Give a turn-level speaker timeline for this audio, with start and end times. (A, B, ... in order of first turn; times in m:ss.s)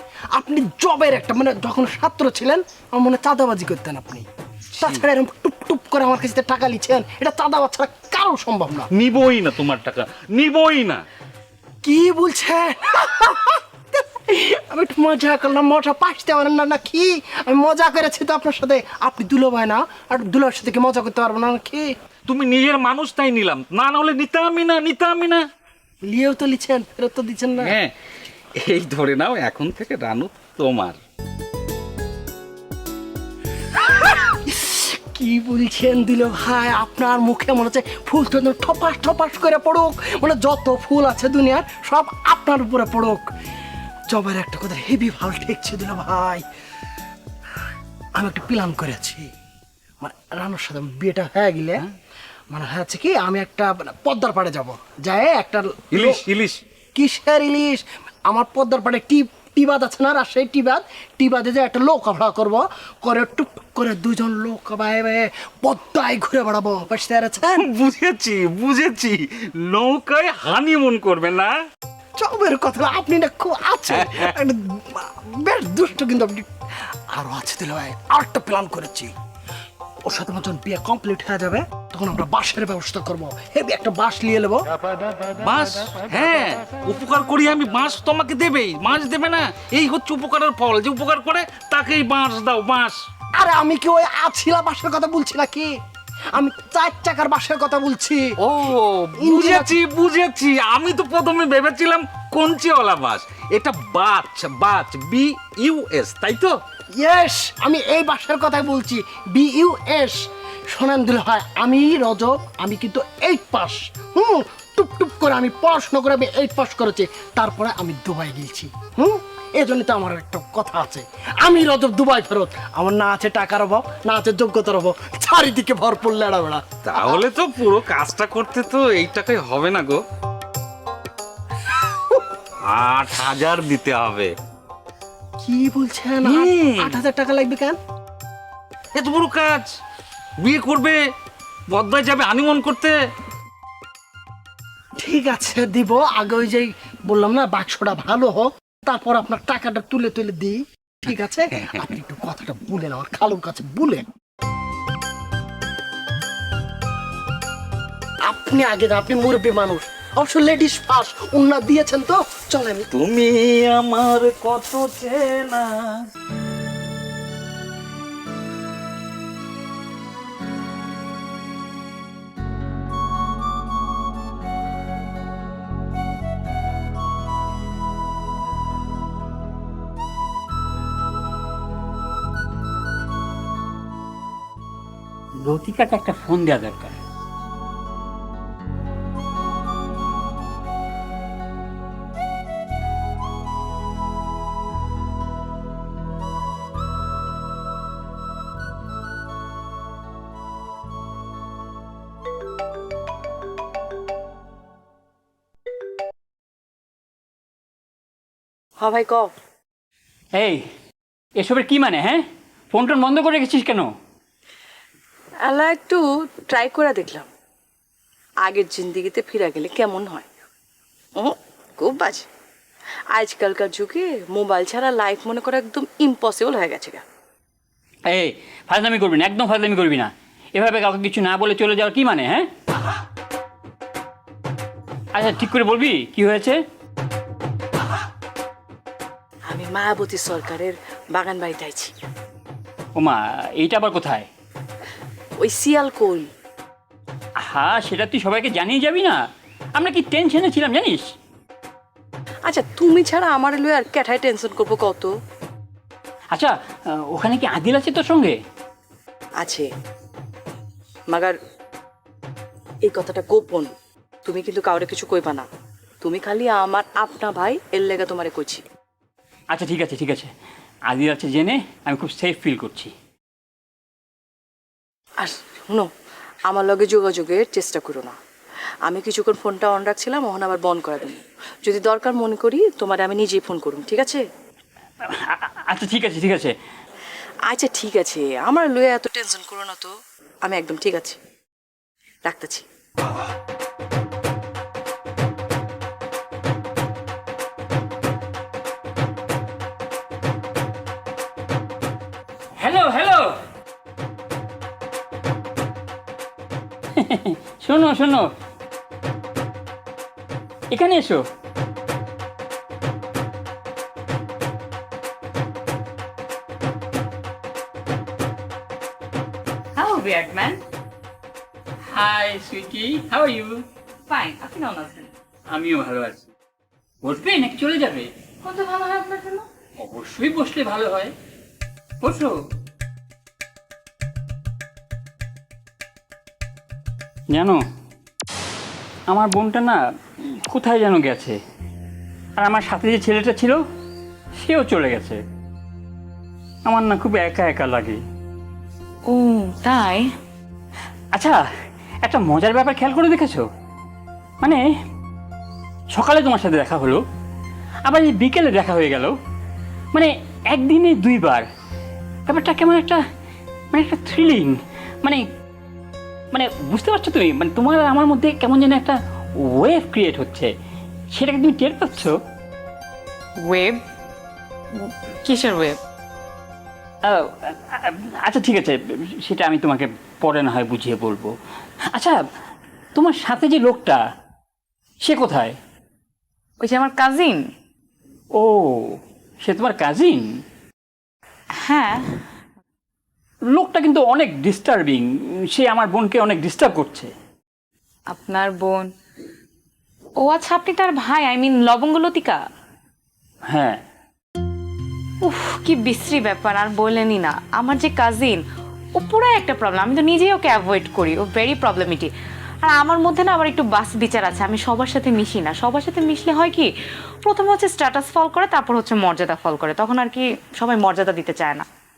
0:00.3-0:04.3 A
0:04.8-0:05.0 B
0:04.8-0:08.9 A
0:08.9-0:11.0 B
0:11.8-0:21.9 A
0:22.3-0:25.5 B
0:26.0-0:27.8 A
0:27.6-0:27.9 B
0:28.6-0:31.0 B
0:34.0-0:43.3 A
0:44.1-0:46.4 A
0:48.2-0:49.3 A
0:50.0-0:51.9 A
0:52.5-0:56.2 A
0:55.9-0:56.6 B
0:57.0-1:07.7 A
1:07.6-1:11.5 B
1:12.2-1:16.5 A
1:13.9-1:14.3 B
1:17.1-1:19.1 A
1:20.0-1:24.6 A
1:25.4-1:33.0 B
1:33.4-1:35.7 A
1:36.4-1:38.3 A
1:38.4-1:46.6 B
1:39.2-1:39.8 A
1:47.0-2:07.2 A
2:06.9-2:10.0 B
2:12.7-2:14.3 B
2:15.4-2:17.8 A
2:16.2-2:17.0 B
2:19.0-2:19.7 B
2:20.4-2:21.0 B
2:21.7-2:23.0 B
2:25.0-2:34.0 A
2:38.3-2:42.9 A
2:42.9-2:46.0 B
3:05.4-3:07.0 C
3:28.8-3:29.3 D
3:30.4-3:30.6 C
3:31.4-3:33.9 C
3:35.4-3:37.3 D
3:38.4-3:40.3 D
3:41.2-3:42.3 D
3:43.1-3:47.0 D
3:48.1-3:52.5 C
3:55.1-3:56.6 C
3:59.5-4:01.9 D
4:03.0-4:04.3 C
4:05.4-4:06.3 D
4:07.4-4:09.2 C
4:09.8-4:11.1 C
4:12.5-4:15.1 D
4:17.1-4:18.4 C
4:19.4-4:19.7 D
4:21.1-4:21.4 D
4:22.8-4:23.7 D
4:24.2-4:25.5 D
4:26.0-4:28.6 D
4:29.5-4:30.3 C
4:30.9-4:32.9 C
4:35.2-4:35.9 D
4:36.5-4:38.2 D
4:38.9-4:44.2 D
4:45.1-4:46.5 C
4:47.5-4:49.9 D
4:50.4-4:51.2 D
4:52.2-4:52.6 D
5:02.6-5:03.4 C
5:07.0-5:08.3 C
5:10.7-5:11.2 C
5:19.8-5:20.6 E
5:21.9-5:23.6 C
5:24.1-5:25.1 E
5:25.5-5:26.3 C
5:27.0-5:28.1 C
5:28.4-5:29.4 E
5:29.8-5:31.1 C
5:32.0-5:32.3 C
5:37.3-5:37.6 C
5:39.1-5:39.8 C
5:40.5-5:41.4 C
5:42.4-5:43.6 C
5:44.4-5:45.2 C
5:46.6-5:48.0 C
5:49.1-5:50.1 E
5:51.1-5:51.4 C
5:52.0-5:53.5 C
5:55.9-5:57.0 C
5:57.9-5:59.2 C
5:59.9-6:01.5 C
6:02.3-6:03.0 C
6:03.7-6:05.2 C
6:06.3-6:10.5 C
6:11.1-6:12.2 C
6:13.4-6:13.8 E
6:14.8-6:15.8 E
6:17.0-6:21.3 C
6:21.9-6:22.2 C
6:23.0-6:24.0 C
6:25.0-6:25.6 C
6:26.6-6:27.4 E
6:28.4-6:30.2 C
6:31.6-6:32.1 E
6:33.5-6:37.1 C
6:38.1-6:38.9 E
6:40.2-6:42.4 E
6:43.5-6:43.8 C
6:45.2-6:48.4 E
6:49.0-6:52.1 E
6:52.6-6:56.7 E
6:57.2-7:01.7 E